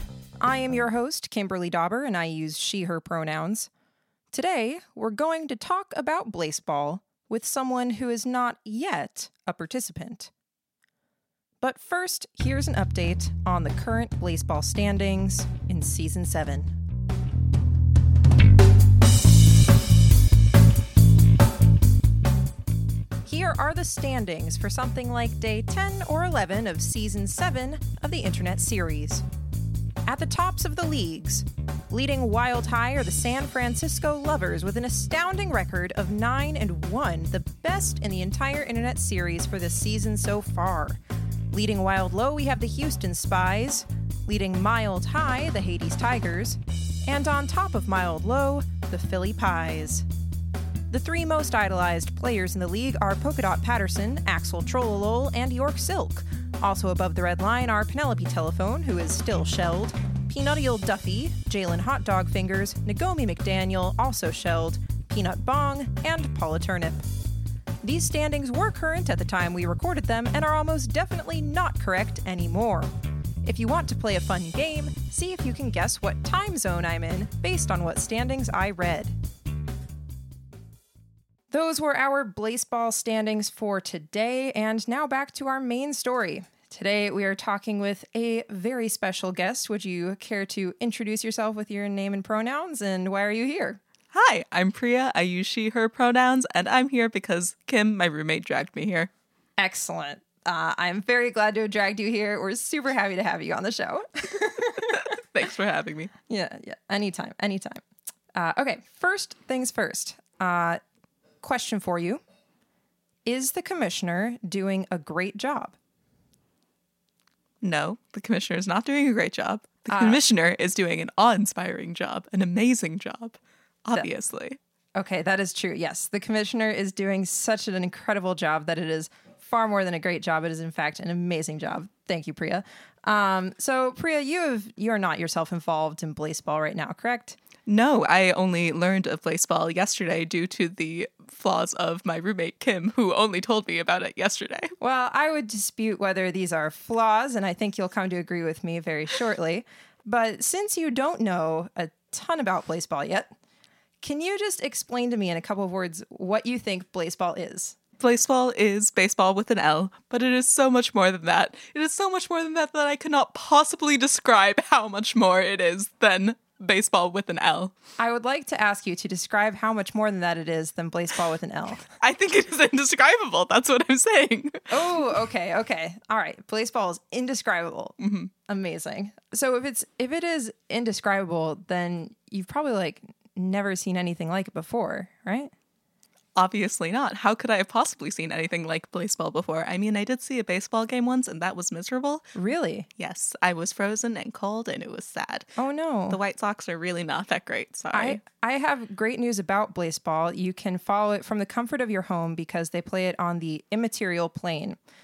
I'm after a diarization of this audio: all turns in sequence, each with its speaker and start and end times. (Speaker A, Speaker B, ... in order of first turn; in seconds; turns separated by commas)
Speaker A: 0.4-3.7, Speaker A: 4.3-10.3, Speaker A: 11.6-16.8, Speaker A: 23.2-29.2, Speaker A: 30.1-41.0, Speaker A: 41.5-50.1, Speaker A: 50.9-67.0, Speaker A: 67.8-72.9, Speaker A: 73.4-79.2, Speaker A: 81.5-93.8, Speaker B: 94.1-99.1, Speaker A: 99.6-105.0, Speaker B: 104.9-106.1, Speaker A: 106.3-107.8, Speaker A: 108.3-110.8, Speaker A: 111.4-112.2, Speaker A: 113.3-115.8, Speaker B: 117.6-124.6, Speaker A: 119.9-120.2, Speaker A: 125.0-137.4, Speaker B: 137.7-144.7, Speaker A: 144.8-153.3, Speaker A: 154.0-157.8, Speaker B: 158.0-167.7, Speaker A: 168.0-171.9, Speaker B: 172.0-174.7, Speaker A: 174.7-185.5, Speaker B: 178.0-178.3, Speaker B: 186.4-192.3, Speaker A: 192.3-192.9, Speaker B: 193.0-195.5, Speaker A: 195.6-196.2, Speaker B: 196.1-198.2, Speaker A: 197.9-204.8